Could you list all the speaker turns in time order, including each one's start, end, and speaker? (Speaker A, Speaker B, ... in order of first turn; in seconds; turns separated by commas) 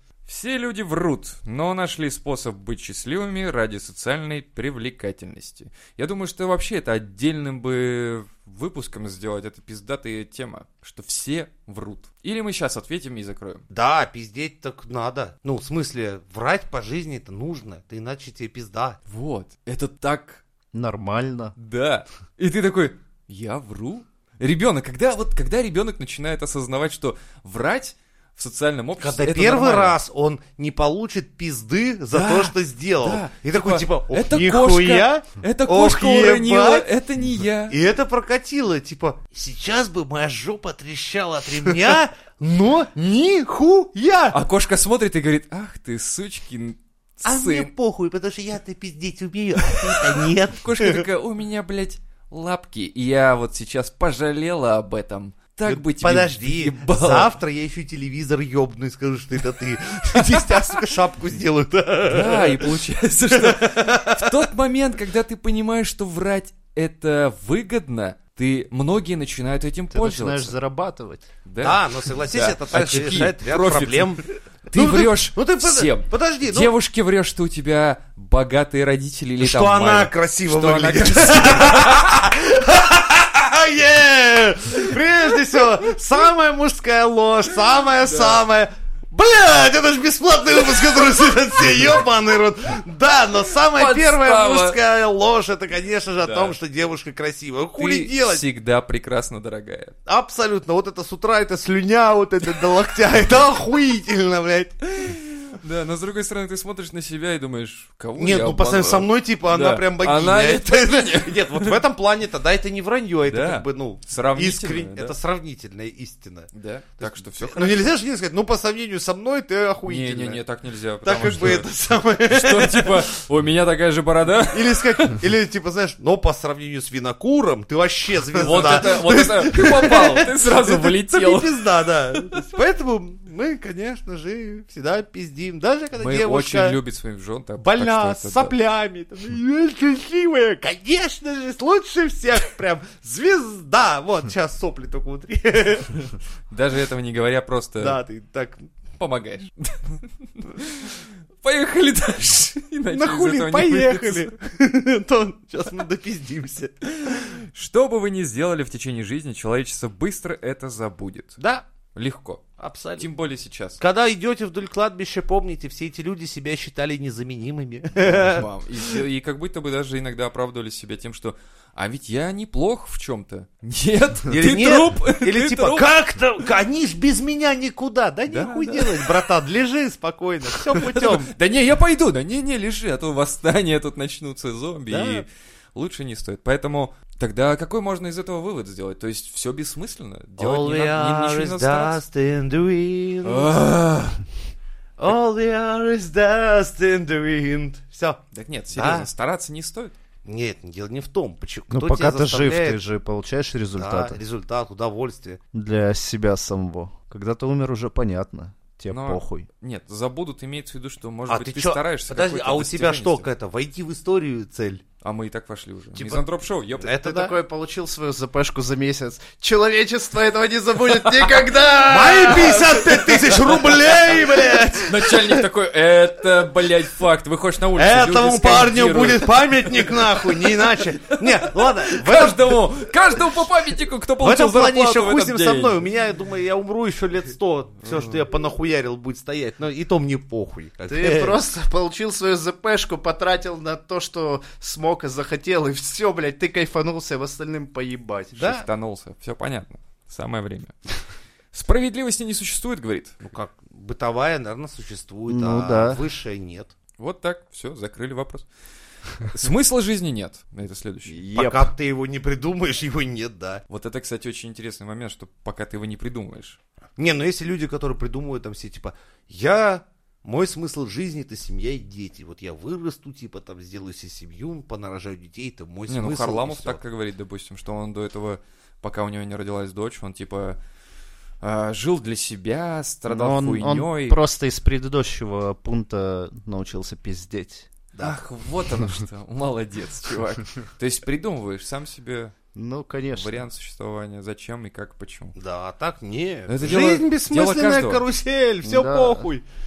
Speaker A: 0.3-13.6, Speaker B: 13.7-19.0, Speaker A: 19.1-20.4, Speaker C: 20.7-21.6, Speaker A: 21.6-30.0, Speaker B: 29.0-36.9, Speaker A: 32.1-37.8, Speaker B: 37.7-44.4, Speaker A: 44.3-47.7, Speaker B: 47.2-51.1, Speaker A: 49.6-57.3, Speaker B: 55.7-62.7, Speaker A: 62.1-70.5, Speaker B: 63.3-64.4, Speaker C: 69.9-71.3, Speaker A: 71.5-82.2, Speaker B: 71.6-76.7, Speaker B: 79.4-98.4, Speaker A: 88.0-88.4, Speaker A: 93.6-94.8, Speaker A: 96.2-96.5, Speaker A: 97.8-99.9, Speaker B: 100.0-104.8, Speaker A: 104.9-111.8, Speaker B: 108.2-116.5, Speaker A: 113.3-115.2, Speaker A: 116.5-117.8, Speaker B: 117.0-120.4, Speaker A: 119.9-121.7, Speaker B: 121.0-123.0, Speaker A: 122.3-125.2, Speaker B: 124.5-136.8, Speaker A: 128.3-131.6, Speaker A: 132.1-132.5, Speaker A: 135.9-138.5, Speaker B: 137.6-146.1, Speaker A: 146.5-148.0, Speaker B: 147.8-148.7, Speaker A: 149.0-154.3, Speaker B: 152.9-157.4, Speaker A: 157.1-161.4, Speaker B: 161.4-161.7, Speaker A: 161.9-163.8, Speaker B: 162.6-163.1, Speaker B: 163.8-169.0, Speaker A: 168.1-175.9, Speaker B: 174.3-181.3, Speaker A: 178.3-179.2, Speaker A: 180.5-192.0, Speaker B: 184.9-185.2, Speaker B: 190.4-193.6, Speaker A: 193.2-194.2, Speaker B: 195.0-198.2, Speaker A: 198.3-199.9, Speaker B: 198.7-199.1, Speaker B: 200.2-202.8, Speaker C: 201.7-204.2, Speaker B: 203.8-205.4, Speaker C: 205.5-209.5, Speaker A: 208.9-213.3, Speaker B: 211.3-214.8, Speaker A: 215.0-217.0, Speaker B: 216.8-217.3, Speaker C: 217.0-223.0, Speaker B: 221.9-225.4, Speaker A: 223.4-235.8, Speaker B: 227.7-233.1, Speaker B: 234.2-241.4, Speaker A: 237.8-238.1, Speaker C: 240.9-248.6, Speaker A: 248.3-250.9, Speaker B: 248.4-248.6, Speaker A: 251.5-253.2, Speaker B: 253.2-256.7, Speaker C: 255.3-256.0, Speaker A: 257.0-258.4, Speaker A: 259.2-261.2, Speaker C: 261.1-261.7, Speaker B: 261.3-263.6, Speaker A: 263.7-266.6, Speaker B: 267.0-276.8, Speaker A: 275.9-280.6, Speaker A: 281.4-284.2, Speaker C: 283.1-287.7, Speaker A: 288.0-292.3, Speaker C: 292.6-293.4, Speaker A: 293.2-295.3, Speaker B: 295.4-299.4, Speaker A: 296.5-298.0, Speaker C: 298.6-299.3